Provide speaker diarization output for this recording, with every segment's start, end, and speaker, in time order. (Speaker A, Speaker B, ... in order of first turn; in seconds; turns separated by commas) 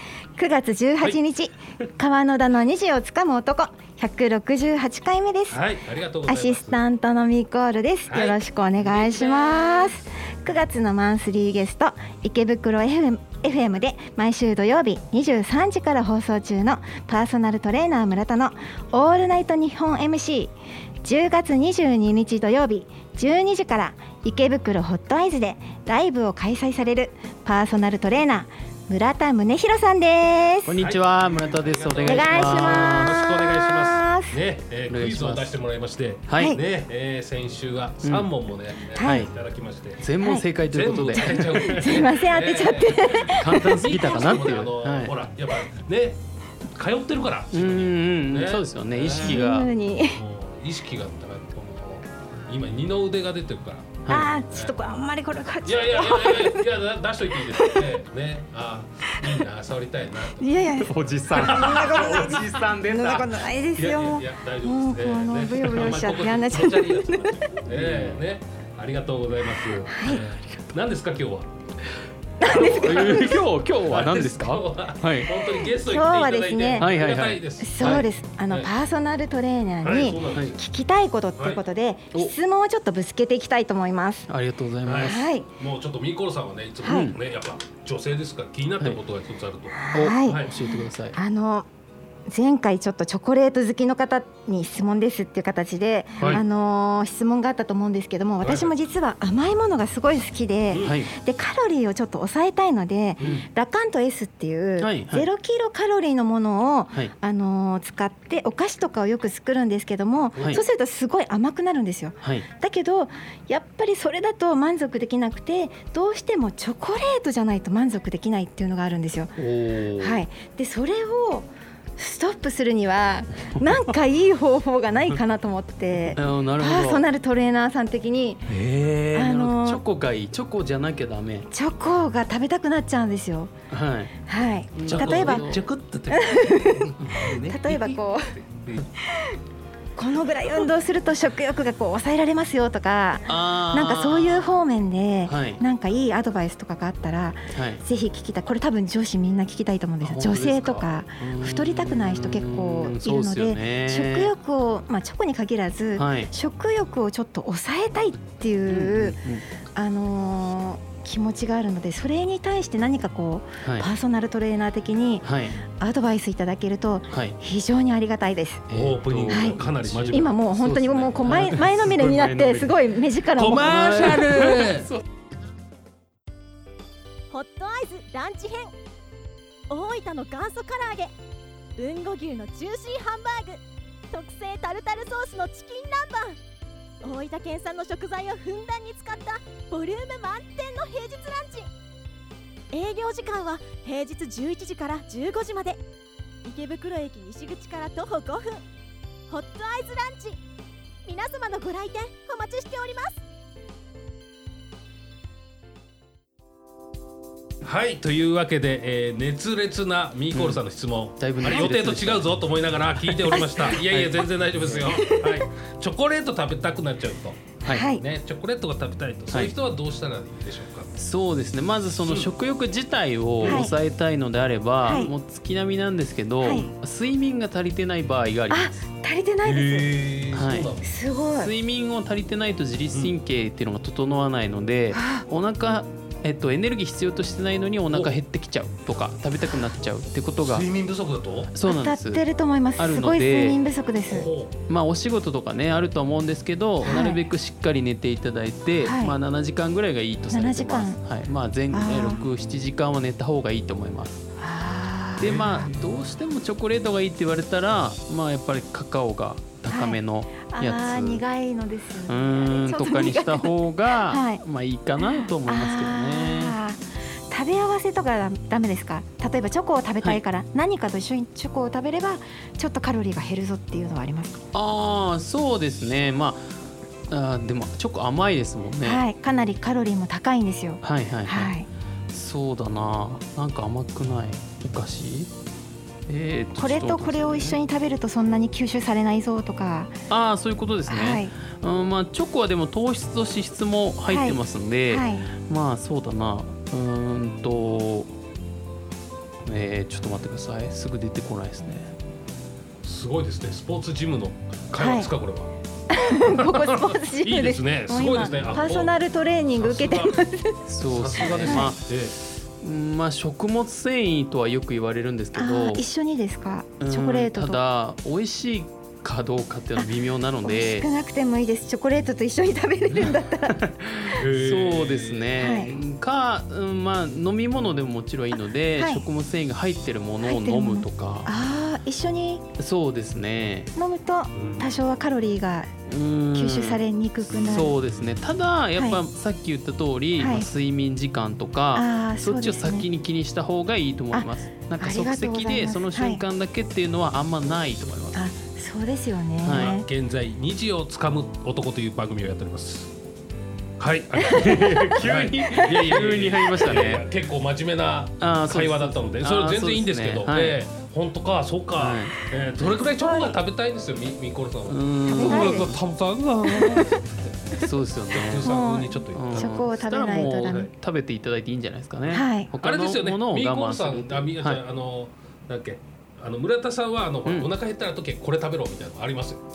Speaker A: 0.3-5.6, Speaker B: 5.5-6.8, Speaker A: 6.2-20.5, Speaker B: 8.1-10.0, Speaker A: 21.0-30.7, Speaker C: 30.6-33.2, Speaker B: 30.8-40.1, Speaker A: 32.0-34.4, Speaker C: 34.9-35.5, Speaker C: 36.3-36.5, Speaker C: 38.0-38.3, Speaker A: 39.0-39.3, Speaker C: 39.0-39.3, Speaker C: 40.0-42.0, Speaker A: 40.2-40.5, Speaker B: 40.7-46.2, Speaker A: 41.5-44.2, Speaker C: 43.2-45.2, Speaker B: 46.7-49.4, Speaker C: 47.5-49.7, Speaker A: 49.2-50.2, Speaker B: 50.1-54.7, Speaker C: 54.0-54.3, Speaker A: 54.1-56.7, Speaker B: 55.6-60.6, Speaker A: 57.4-57.9, Speaker A: 59.1-59.4, Speaker A: 60.4-67.6, Speaker C: 60.8-63.3, Speaker B: 61.3-62.6, Speaker B: 63.8-71.5, Speaker C: 65.6-66.0, Speaker C: 67.7-68.2, Speaker A: 69.8-70.2, Speaker A: 72.4-73.5, Speaker B: 72.4-78.7, Speaker C: 72.8-75.3, Speaker A: 75.8-76.9, Speaker C: 76.8-78.1, Speaker A: 77.6-84.3, Speaker B: 79.8-80.6, Speaker C: 80.3-80.5, Speaker C: 84.3-85.3, Speaker B: 84.8-90.5, Speaker A: 85.0-85.5, Speaker A: 86.8-87.1, Speaker C: 86.8-87.2, Speaker A: 89.8-91.7, Speaker C: 89.9-91.2, Speaker A: 92.3-119.4, Speaker B: 96.2-96.4, Speaker B: 98.4-98.7, Speaker B: 100.7-101.0, Speaker C: 100.8-101.1, Speaker C: 104.8-105.3, Speaker B: 110.3-110.6, Speaker C: 112.2-112.5, Speaker C: 119.3-120.2, Speaker A: 120.0-128.6, Speaker C: 126.1-127.0, Speaker C: 128.5-131.5, Speaker A: 129.1-129.8, Speaker A: 131.5-133.5, Speaker C: 133.7-134.1, Speaker A: 134.3-135.5, Speaker C: 134.7-135.6, Speaker B: 134.8-138.8, Speaker A: 136.1-138.3, Speaker A: 139.0-139.4, Speaker A: 139.9-159.2, Speaker C: 143.2-144.6, Speaker C: 145.2-145.6, Speaker C: 147.5-147.8, Speaker C: 150.0-154.3, Speaker C: 156.0-156.3, Speaker C: 158.7-159.4, Speaker A: 159.7-168.6, Speaker C: 165.2-165.6, Speaker C: 167.1-167.3, Speaker C: 168.7-172.8, Speaker B: 168.7-170.4, Speaker A: 169.3-169.6, Speaker A: 170.1-174.2, Speaker B: 173.4-174.9, Speaker C: 173.5-175.0, Speaker D: 177.3-178.7, Speaker D: 179.7-181.1, Speaker D: 181.8-186.4, Speaker D: 187.0-191.7, Speaker D: 192.7-195.8, Speaker D: 196.4-198.6, Speaker D: 199.3-200.4, Speaker D: 201.0-203.2, Speaker B: 207.6-220.9, Speaker C: 210.3-210.6, Speaker C: 211.2-212.3, Speaker C: 213.1-215.0, Speaker A: 213.3-213.8, Speaker A: 214.9-215.2, Speaker A: 217.7-218.0, Speaker C: 221.0-228.8, Speaker B: 222.0-222.3, Speaker B: 223.4-223.7, Speaker A: 223.4-223.7, Speaker A: 224.8-225.1, Speaker A: 226.4-226.7, Speaker A: 228.5-229.9, Speaker B: 229.4-230.9, Speaker C: 230.3-230.7, Speaker A: 230.8-231.5, Speaker C: 231.3-240.7, Speaker A: 234.9-235.2, Speaker B: 237.9-238.2, Speaker B: 240.4-241.5, Speaker C: 241.5-242.2, Speaker A: 241.6-244.2, Speaker C: 242.8-243.6, Speaker B: 244.1-244.5, Speaker C: 244.7-254.2, Speaker A: 246.9-247.2, Speaker A: 248.8-249.2, Speaker A: 250.3-251.0, Speaker A: 251.7-252.2, Speaker A: 254.4-255.7, Speaker C: 255.2-261.2, Speaker B: 255.2-255.6, Speaker A: 259.7-264.4, Speaker C: 262.1-266.6, Speaker A: 265.0-274.4, Speaker C: 274.5-276.5, Speaker C: 277.1-279.0, Speaker A: 278.8-281.7, Speaker C: 280.8-281.6, Speaker C: 282.1-285.3, Speaker C: 286.1-287.6, Speaker A: 286.6-289.9, Speaker C: 290.1-298.1, Speaker A: 290.9-291.3, Speaker A: 294.1-295.3, Speaker C: 299.4-301.9, Speaker B: 302.8-305.5, Speaker A: 304.8-305.1, Speaker A: 305.9-310.6, Speaker B: 306.2-309.0, Speaker B: 309.5-310.2, Speaker C: 310.7-311.8, Speaker B: 310.9-312.1, Speaker A: 311.3-311.7, Speaker C: 312.6-315.8, Speaker A: 315.3-317.6, Speaker C: 316.8-320.9, Speaker A: 320.4-323.6, Speaker C: 322.9-331.3, Speaker B: 324.1-325.3, Speaker A: 325.4-325.7, Speaker A: 328.8-329.1, Speaker A: 330.2-332.4, Speaker C: 332.6-333.7, Speaker A: 333.7-335.7, Speaker B: 334.4-334.7, Speaker C: 335.9-348.3, Speaker A: 336.3-337.8, Speaker B: 337.3-338.1, Speaker A: 338.8-339.0, Speaker A: 340.2-340.5, Speaker A: 341.7-342.9, Speaker A: 344.1-346.2, Speaker A: 348.1-349.9, Speaker C: 349.4-349.8, Speaker B: 349.5-352.9, Speaker B: 353.8-367.0, Speaker C: 354.2-357.1, Speaker A: 354.4-355.0, Speaker C: 358.2-360.6, Speaker C: 361.8-362.1, Speaker A: 363.0-363.3, Speaker C: 364.7-365.8, Speaker A: 365.1-365.8, Speaker A: 366.4-367.0, Speaker C: 367.6-368.6, Speaker B: 368.1-369.6, Speaker A: 368.4-370.7, Speaker C: 369.1-374.6, Speaker B: 370.1-370.7, Speaker A: 372.1-372.5, Speaker B: 372.6-379.4